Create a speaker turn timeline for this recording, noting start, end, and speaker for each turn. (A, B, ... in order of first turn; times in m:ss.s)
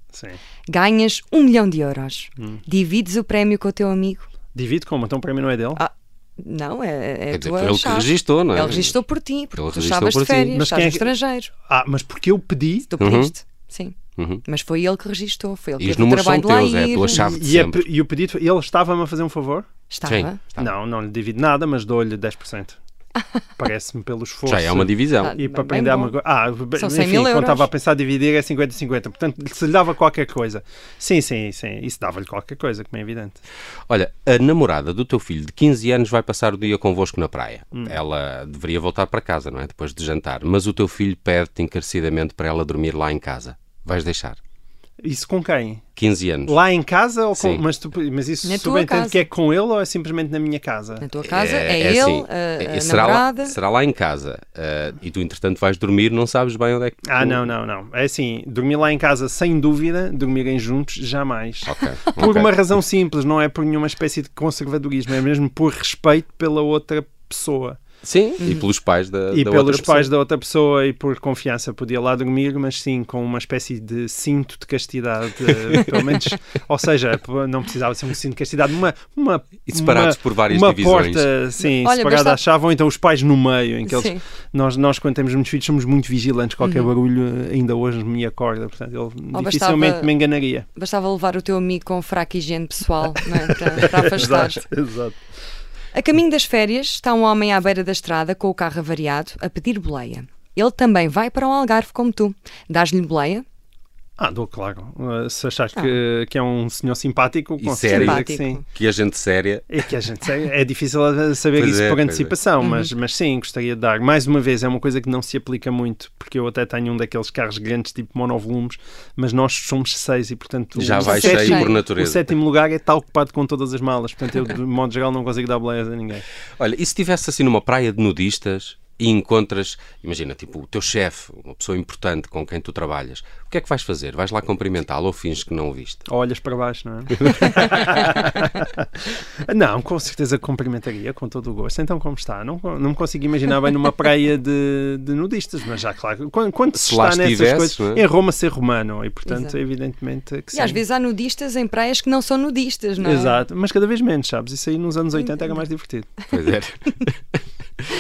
0:00.1-0:00.4 A
0:00.7-0:04.3 B
0:04.5-0:05.8 A
0:05.8-0:11.5 B
0:07.3-0:09.0 C
0:09.6-0:10.6 C
0:10.5-0:11.1 A
0:11.7-0:12.9 A
0:12.9-0:17.4 B
0:13.0-0:13.3 C
0:14.2-0:14.4 C
0:15.8-0:17.8 C
0:17.1-0:19.7 A
0:19.9-0:20.4 B
0:20.1-0:20.7 C
0:20.6-0:22.8 A
0:23.6-0:33.4 A
0:24.5-0:25.3 C
0:25.2-0:26.2 B
0:26.8-0:27.7 B
0:33.9-0:44.4 C
0:45.0-0:45.8 A
0:46.0-0:46.6 C
0:46.5-0:51.1 A
0:47.4-0:47.6 C
0:48.4-0:49.3 B
0:51.0-0:53.6 B
0:51.2-0:57.5 C
0:57.1-1:07.8 A
1:01.7-1:02.5 C
1:08.0-1:10.1 C
1:08.4-1:08.6 B
1:09.3-1:30.7 A
1:19.7-1:21.3 C
1:21.6-1:22.4 B
1:23.8-1:24.2 B
1:26.6-1:26.9 B
1:29.3-1:30.1 B
1:30.8-1:34.6 B
1:33.8-1:35.2 A
1:35.9-1:43.5 B
1:44.2-1:48.6 A
1:47.6-1:49.7 C
1:47.8-1:48.6 B
1:49.7-2:06.2 A
1:51.5-1:52.4 C
1:52.6-1:52.9 B
2:00.8-2:02.3 C
2:01.0-2:01.8 B
2:06.6-2:16.0 C
2:16.1-2:18.9 A
2:17.2-2:18.1 C
2:19.5-2:30.8 A
2:26.7-2:28.0 C
2:29.3-2:29.6 B
2:30.5-2:33.4 B
2:33.0-2:36.2 A
2:35.2-2:35.5 B
2:36.3-2:37.1 C